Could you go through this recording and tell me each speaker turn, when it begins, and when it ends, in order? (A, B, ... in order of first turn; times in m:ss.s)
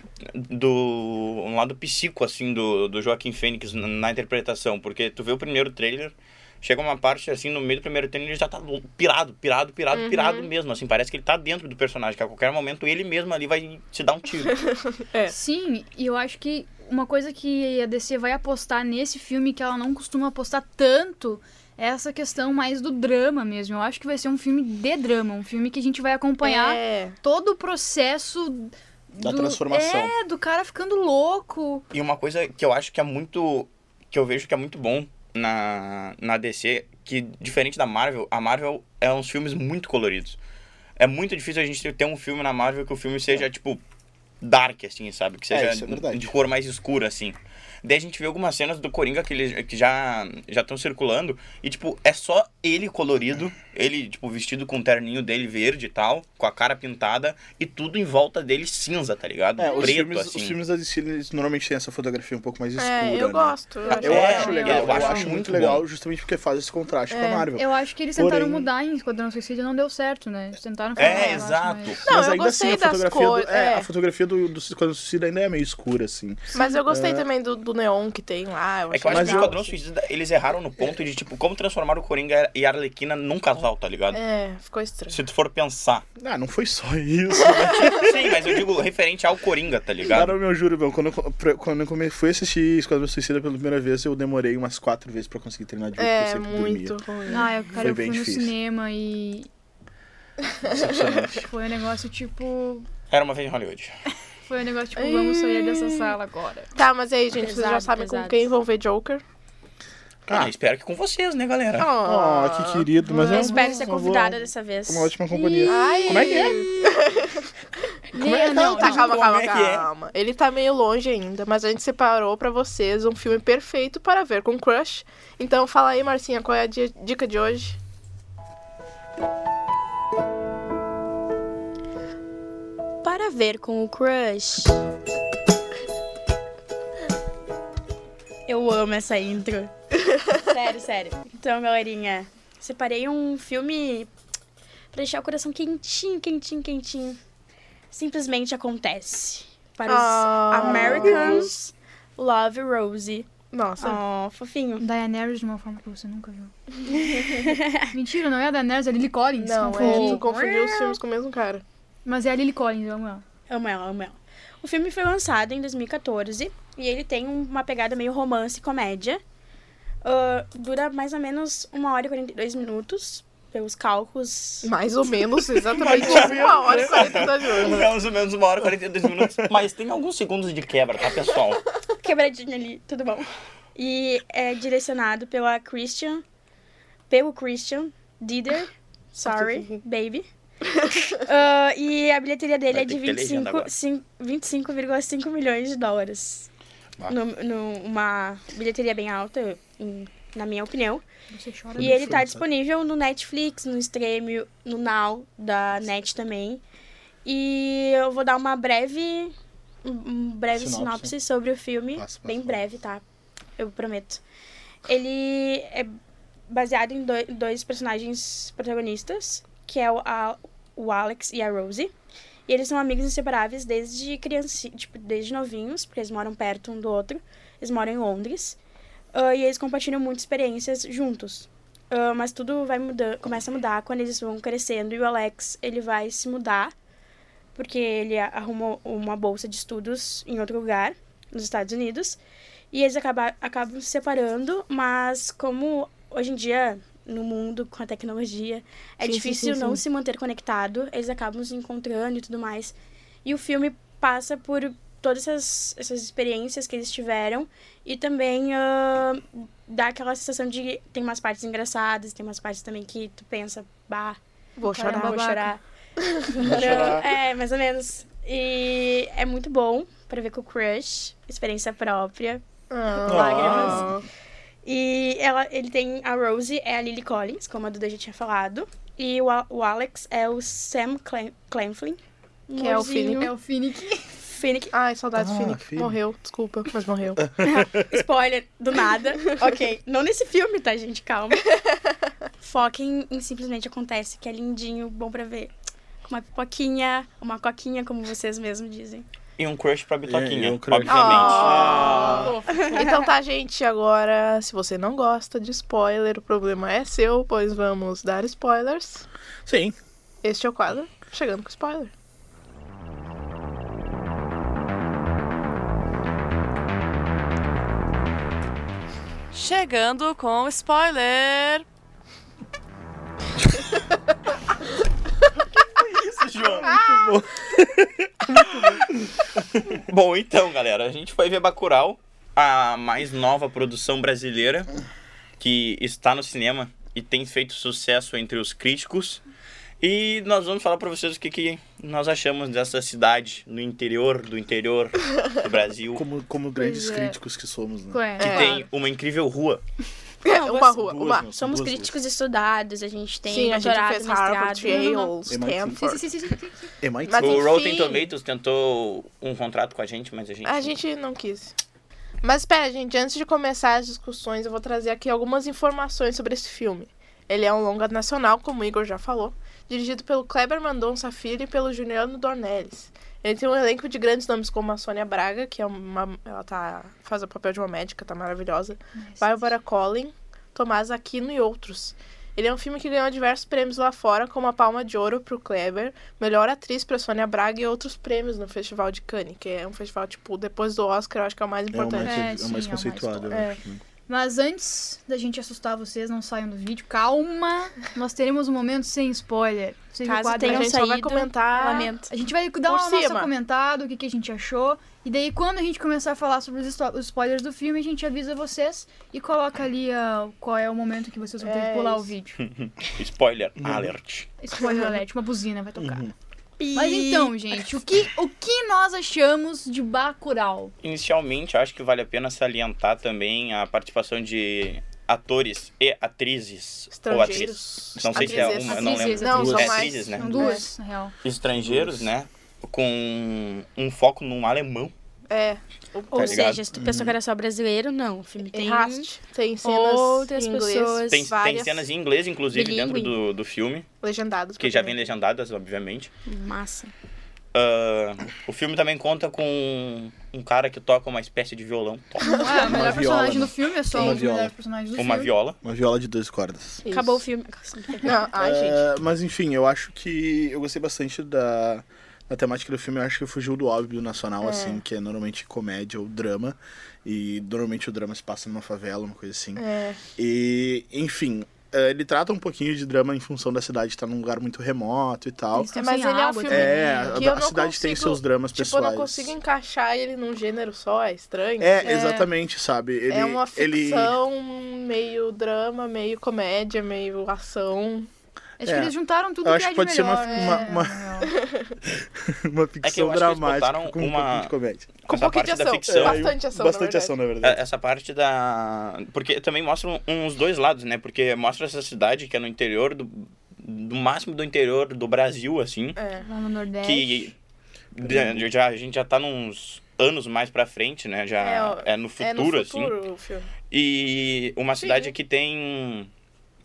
0:00.3-0:14.6 A
0:09.9-0:10.5 B
0:14.7-0:15.3 B
0:15.3-0:31.8 C
0:26.4-0:27.2 B
0:29.2-0:30.1 D
0:31.9-0:40.4 A
0:41.0-0:43.8 A
0:44.4-1:00.6 A
0:45.5-0:46.3 D
0:59.6-1:07.6 D
0:59.6-0:59.9 C
1:02.8-1:04.8 B
1:03.9-1:05.8 A
1:03.9-1:05.4 C
1:07.1-1:07.5 B
1:07.5-1:12.0 C
1:08.2-1:08.7 D
1:11.0-1:12.0 A
1:11.0-1:11.4 B
1:12.0-1:17.2 D
1:12.1-1:13.9 B
1:16.5-1:19.7 B
1:18.9-1:24.2 A
1:19.1-1:19.5 D
1:24.1-1:25.2 B
1:25.1-1:26.0 A
1:26.2-1:28.3 D
1:27.6-1:30.3 A
1:30.1-1:37.0 D
1:36.0-1:37.5 B
1:37.3-1:39.5 C
1:37.8-1:38.5 D
1:40.6-1:41.5 D
1:41.2-1:42.9 C
1:43.1-1:43.9 A
1:44.5-1:46.7 C
1:45.0-1:46.0 B
1:46.8-1:49.2 B
1:47.3-1:48.4 E
1:50.3-1:51.9 A
1:51.8-1:52.9 B
1:52.0-1:56.6 D
1:53.0-1:53.8 C
1:53.2-1:55.7 E
1:55.4-1:56.5 C
1:55.7-1:57.5 B
1:58.1-1:59.1 C
1:58.2-1:58.5 D
1:58.3-2:07.8 B
1:58.5-1:59.9 A
2:13.0-2:14.8 E
2:18.5-2:19.7 E
2:20.4-2:24.1 E
2:24.9-2:27.2 E
2:27.9-2:33.3 E
2:29.8-2:31.5 B
2:33.5-2:34.0 B
2:33.8-2:34.8 E
2:34.8-2:36.5 C
2:36.9-2:37.9 E
2:37.9-2:40.2 C
2:39.4-2:41.6 B
2:39.8-2:41.0 E
2:42.0-2:43.2 C
2:43.5-2:49.2 E
2:50.0-2:54.7 E
2:54.6-2:57.9 B
2:55.7-3:01.6 A
2:55.8-2:57.8 D
2:59.0-2:59.5 D
3:02.0-3:06.2 E
3:07.1-3:10.3 E
3:09.2-3:09.8 B
3:11.1-3:16.5 E
3:12.7-3:13.7 A
3:17.0-3:21.0 E
3:21.3-3:22.0 C
3:21.8-3:22.4 D
3:21.8-3:26.6 E
3:27.2-3:33.0 E
3:30.5-3:31.1 D
3:32.0-3:32.6 D
3:33.6-3:34.2 E
3:34.8-3:35.9 E
3:36.5-3:41.9 E
3:42.5-3:48.6 E
3:49.1-3:56.7 E
3:57.5-4:02.2 E
4:02.7-4:24.2 E
4:09.0-4:09.8 B
4:24.6-4:25.3 B
4:24.7-4:25.5 C
4:24.8-4:25.6 E
4:26.0-4:26.8 B
4:26.3-4:32.4 E
4:26.4-4:27.1 D
4:32.7-4:34.0 B
4:33.0-4:33.9 E
4:33.0-4:33.9 D
4:34.6-4:43.3 E
4:42.6-4:43.3 B
4:42.8-4:44.1 C
4:44.2-4:44.7 E
4:44.7-4:47.3 B
4:45.1-4:46.0 D
4:47.2-4:48.0 D
4:47.4-4:51.4 E
4:52.4-4:55.5 E
4:56.0-4:59.0 E
4:59.4-5:01.8 A
5:00.1-5:02.3 D
5:00.9-5:09.0 B
5:01.4-5:03.0 C
5:02.5-5:02.9 E
5:09.4-5:09.8 D
5:10.2-5:11.9 B
5:19.3-5:21.6 F
5:25.7-5:26.8 A
5:26.6-5:28.8 D
5:29.7-5:34.7 A
5:35.4-5:39.2 A
5:39.8-5:46.0 A
5:45.9-5:48.0 D
5:46.6-5:47.2 C
5:47.9-5:48.7 C
5:48.2-5:48.5 B
5:48.2-5:49.6 A
5:50.2-5:51.3 B
5:50.2-5:55.0 E
5:50.8-5:51.9 D
5:53.2-5:56.0 B
5:54.6-5:55.1 C
5:55.3-5:56.0 D
5:55.8-5:56.7 C
5:56.8-5:57.5 D
5:57.0-5:58.1 B
5:57.2-6:00.8 A
6:00.4-6:01.5 B
6:02.2-6:32.2 B
6:18.9-6:19.5 C
6:31.7-6:33.8 D
6:32.0-6:33.4 C
6:33.3-6:33.6 B
6:34.1-6:40.7 C
6:40.0-6:42.1 E
6:40.4-6:41.9 B
6:42.1-6:52.4 C
6:42.7-6:43.3 B
6:51.4-6:52.1 B
6:52.4-6:54.3 A
6:53.6-6:53.9 D
6:54.4-6:56.0 C
6:54.6-6:54.9 B
6:55.8-6:56.1 D
6:56.6-6:57.4 E
6:56.7-7:00.7 C
7:00.8-7:10.6 A
7:06.9-7:10.6 B
7:08.0-7:08.6 D
7:08.7-7:11.1 C
7:09.3-7:09.8 D
7:11.2-7:14.9 A
7:11.5-7:12.1 D
7:15.3-7:16.6 B
7:16.1-7:19.1 E
7:16.1-7:16.6 A
7:16.7-7:17.1 D
7:18.5-7:21.9 B
7:19.6-7:21.3 E
7:21.1-7:23.8 A
7:22.5-7:23.1 E
7:24.0-7:25.1 B
7:24.6-7:26.1 A
7:26.3-7:26.9 E
7:27.5-7:32.5 A
7:32.2-7:32.8 B
7:32.3-7:35.3 C
7:32.6-7:34.5 D
7:33.9-7:34.2 B
7:35.0-7:35.6 A
7:35.6-7:36.8 D
7:36.8-7:37.2 B
7:36.9-7:38.1 E
7:38.0-7:38.8 B
7:38.4-7:49.6 D
7:44.4-7:44.8 B
7:49.6-7:50.0 B
7:50.2-7:55.7 D
7:55.5-7:57.2 C
7:55.7-8:02.2 B
7:56.5-7:59.3 D
8:01.6-8:04.2 D
8:01.8-8:02.2 C
8:03.1-8:08.1 B
8:08.6-8:11.3 C
8:08.6-8:11.0 D
8:10.2-8:11.8 B
8:11.9-8:14.9 D
8:12.8-8:14.5 A
8:15.1-8:16.3 A
8:15.1-8:17.1 B
8:15.9-8:17.6 D
8:17.4-8:26.0 A
8:26.0-8:26.2 B
8:26.2-8:27.3 C
8:26.8-8:27.4 A
8:27.9-8:33.0 A
8:28.0-8:28.4 D
8:31.4-8:33.5 B
8:33.7-8:36.1 A
8:34.8-8:35.1 B